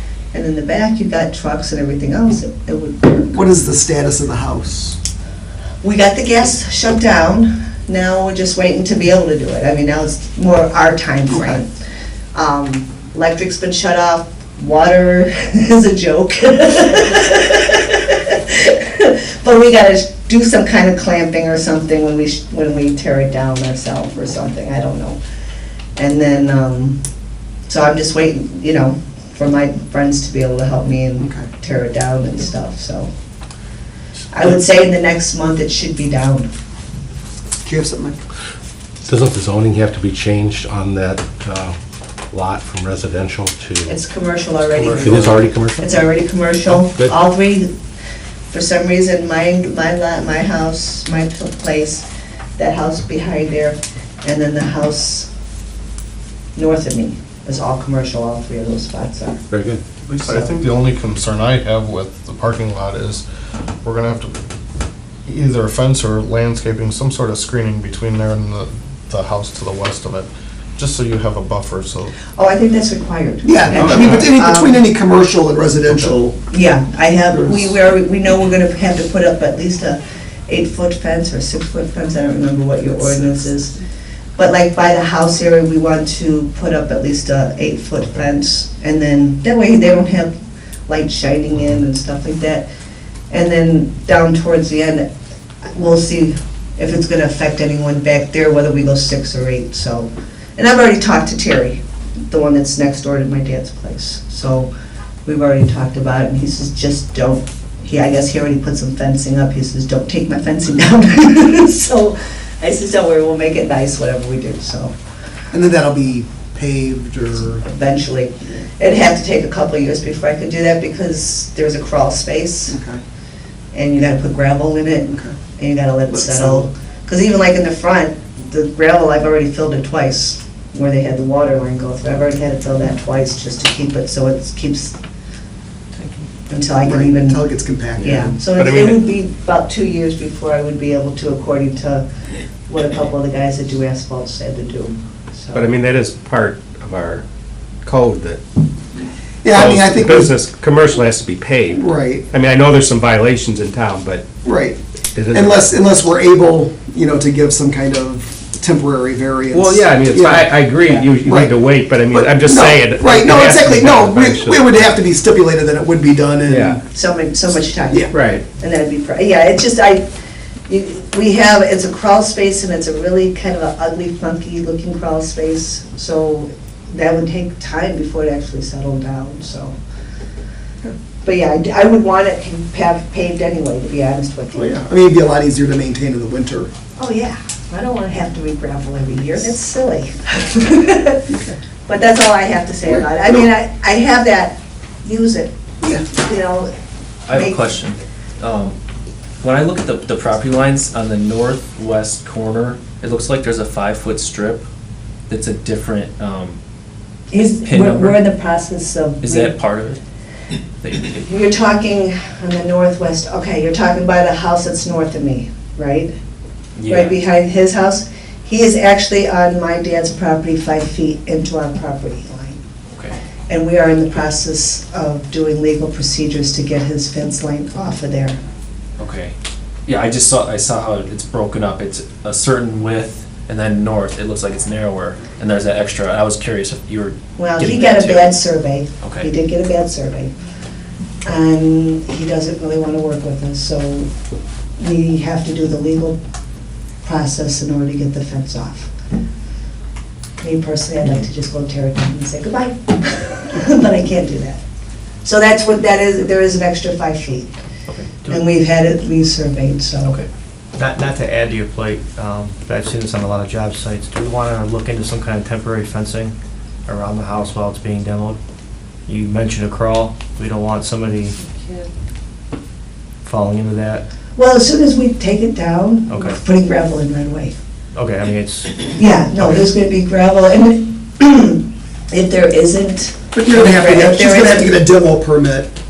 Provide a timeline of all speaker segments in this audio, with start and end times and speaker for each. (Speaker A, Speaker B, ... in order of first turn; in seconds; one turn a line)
Speaker A: 0.3-3.3
Speaker B: 3.3-5.0
Speaker A: 5.8-11.7
Speaker B: 11.3-11.6
Speaker A: 12.3-25.2
Speaker A: 25.9-27.0
Speaker A: 27.7-33.1
Speaker A: 34.3-36.5
Speaker B: 37.6-38.2
Speaker C: 39.0-41.8
Speaker C: 42.3-44.0
Speaker A: 43.9-47.7
Speaker C: 44.8-46.0
Speaker A: 48.5-52.0
Speaker A: 52.6-55.3
Speaker A: 56.5-59.4
Speaker C: 59.5-59.8
Speaker D: 60.1-63.2
Speaker A: 60.2-60.6
Speaker D: 63.8-64.3
Speaker D: 65.2-72.2
Speaker A: 72.3-74.8
Speaker B: 73.4-76.4
Speaker D: 75.9-76.1
Speaker A: 76.5-83.7
Speaker B: 77.3-77.7
Speaker A: 84.4-90.3
Speaker A: 90.9-92.6
Speaker A: 93.3-95.1
Speaker A: 95.7-104.7
Speaker A: 105.2-114.9
Speaker B: 115.5-117.6
Speaker A: 117.6-122.8
Speaker B: 122.7-123.0
Speaker A: 123.7-135.0
Speaker B: 126.1-126.7
Speaker E: 136.0-136.2
Speaker A: 136.5-137.4
Speaker B: 136.8-138.3
Speaker A: 138.0-142.1
Speaker F: 138.4-139.0
Speaker A: 142.7-145.7
Speaker F: 145.5-147.2
Speaker F: 147.8-148.4
Speaker B: 149.4-150.3
Speaker F: 149.5-154.2
Speaker B: 151.7-152.2
Speaker B: 154.4-154.8
Speaker F: 155.1-155.7
Speaker B: 155.3-166.8
Speaker F: 159.5-165.0
Speaker F: 166.5-166.8
Speaker A: 166.9-170.1
Speaker B: 167.9-168.1
Speaker F: 168.1-168.4
Speaker A: 170.7-179.8
Speaker A: 181.2-184.7
Speaker B: 184.5-186.7
Speaker A: 187.0-191.3
Speaker A: 191.9-195.5
Speaker B: 192.9-193.4
Speaker B: 195.8-196.1
Speaker A: 196.0-196.7
Speaker E: 197.3-198.8
Speaker A: 197.3-197.7
Speaker E: 199.4-204.6
Speaker E: 205.3-206.6
Speaker A: 207.3-209.6
Speaker E: 207.6-208.2
Speaker E: 209.2-210.0
Speaker E: 210.8-211.2
Speaker A: 211.2-216.1
Speaker E: 216.8-217.2
Speaker A: 216.9-222.6
Speaker A: 223.5-228.4
Speaker E: 229.0-229.3
Speaker E: 229.9-238.3
Speaker A: 237.4-240.3
Speaker E: 239.0-239.3
Speaker A: 241.2-244.1
Speaker A: 244.8-246.2
Speaker A: 247.0-248.9
Speaker A: 250.4-254.6
Speaker A: 255.2-257.5
Speaker G: 258.2-258.4
Speaker A: 258.2-260.1
Speaker G: 260.7-266.3
Speaker G: 266.9-268.4
Speaker G: 269.1-271.4
Speaker G: 273.2-274.0
Speaker A: 274.4-277.5
Speaker G: 276.1-276.4
Speaker G: 277.9-279.7
Speaker A: 278.9-284.7
Speaker B: 283.3-285.7